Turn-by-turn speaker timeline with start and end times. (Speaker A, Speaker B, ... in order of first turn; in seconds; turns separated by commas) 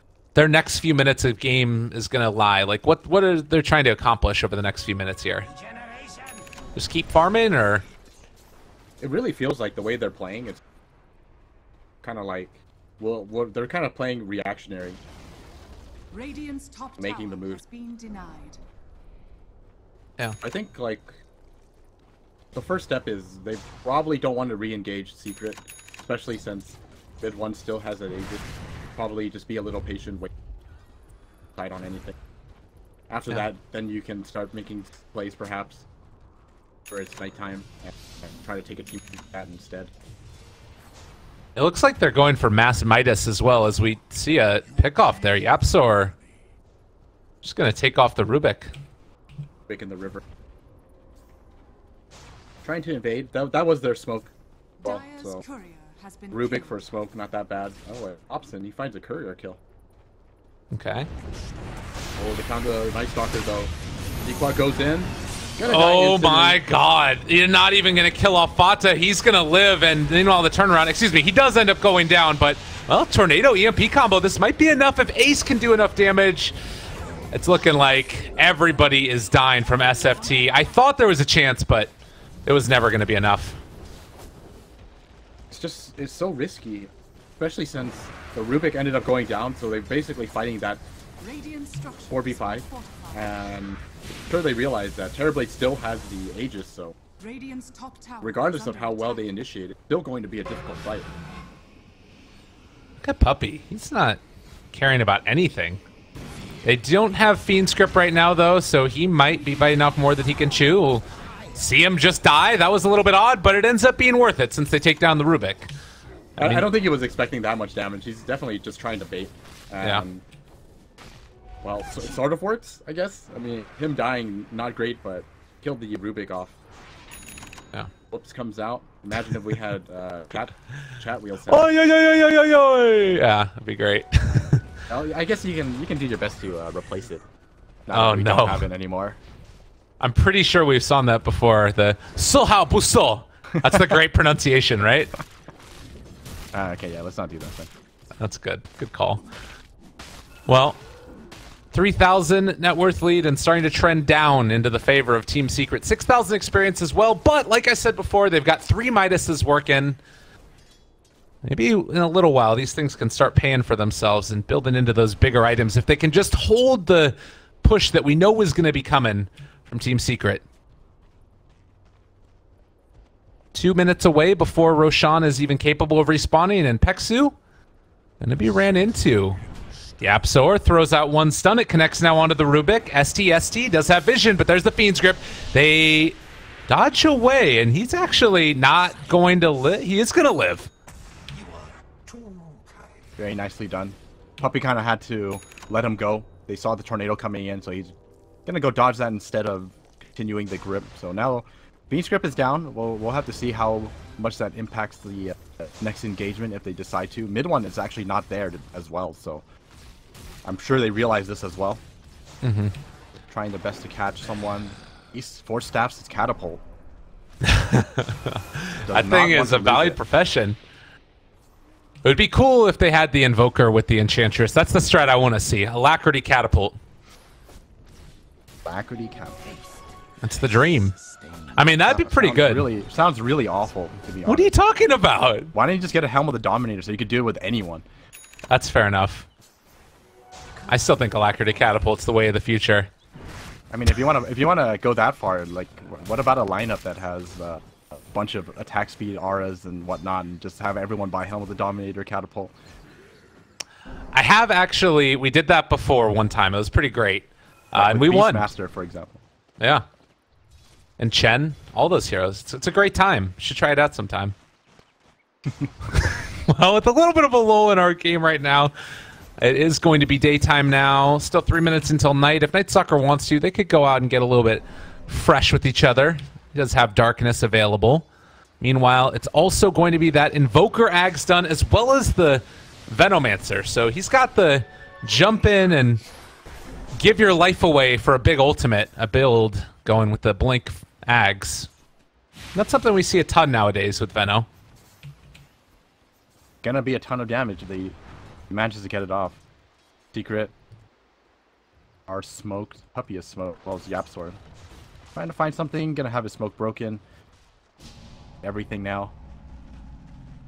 Speaker A: 0.3-5.5, Speaker A: 6.8-7.8, Speaker B: 9.0-10.6, Speaker B: 12.0-15.0, Speaker C: 16.1-18.6, Speaker B: 17.0-17.6, Speaker B: 20.4-21.1, Speaker B: 22.5-28.4, Speaker B: 29.0-30.3, Speaker B: 31.6-32.2, Speaker B: 33.1-35.9, Speaker B: 36.9-39.9, Speaker A: 41.6-46.1, Speaker A: 47.4-48.7, Speaker B: 49.7-50.2, Speaker B: 52.6-54.3, Speaker C: 54.8-56.8, Speaker B: 54.8-55.4, Speaker B: 56.3-59.6, Speaker A: 60.7-61.1, Speaker B: 62.2-63.7, Speaker B: 64.2-66.6, Speaker A: 65.7-76.5, Speaker A: 77.3-81.9, Speaker C: 79.8-80.7, Speaker A: 82.5-83.6, Speaker B: 85.5-90.8, Speaker C: 91.2-93.5, Speaker B: 92.1-97.0, Speaker C: 97.2-99.4, Speaker B: 98.2-101.1, Speaker A: 103.0-104.2, Speaker A: 104.7-105.8, Speaker A: 106.6-115.7, Speaker B: 116.4-120.2, Speaker A: 116.4-116.7, Speaker B: 121.6-126.6, Speaker B: 128.1-131.7, Speaker A: 131.5-134.7, Speaker B: 134.9-137.2, Speaker B: 137.9-139.2, Speaker A: 137.9-138.7, Speaker A: 140.0-145.1, Speaker B: 146.5-147.7, Speaker A: 148.2-149.2, Speaker A: 150.5-150.8, Speaker A: 151.7-160.0, Speaker A: 161.4-170.4, Speaker A: 173.5-177.4, Speaker A: 178.2-179.4, Speaker A: 180.0-190.7, Speaker B: 193.2-197.9, Speaker B: 198.5-209.4, Speaker B: 210.4-211.8, Speaker A: 212.4-212.8, Speaker B: 213.3-216.6, Speaker A: 217.4-220.6, Speaker B: 218.8-220.0, Speaker A: 222.0-226.8, Speaker B: 228.7-229.4, Speaker A: 230.2-230.9, Speaker A: 231.5-232.7, Speaker B: 231.8-234.5, Speaker A: 234.2-235.5, Speaker B: 235.5-237.8, Speaker A: 238.5-239.3, Speaker A: 240.7-242.9, Speaker B: 243.7-252.5, Speaker A: 254.1-258.5, Speaker B: 257.7-259.2, Speaker A: 259.6-259.9, Speaker A: 261.0-264.4, Speaker A: 265.9-268.7, Speaker A: 269.4-278.1, Speaker A: 278.6-286.0, Speaker A: 287.0-291.7, Speaker A: 292.6-294.5, Speaker B: 296.6-298.0, Speaker B: 298.5-299.4, Speaker B: 300.1-300.5, Speaker B: 302.1-304.4, Speaker B: 305.1-307.0, Speaker B: 308.4-309.1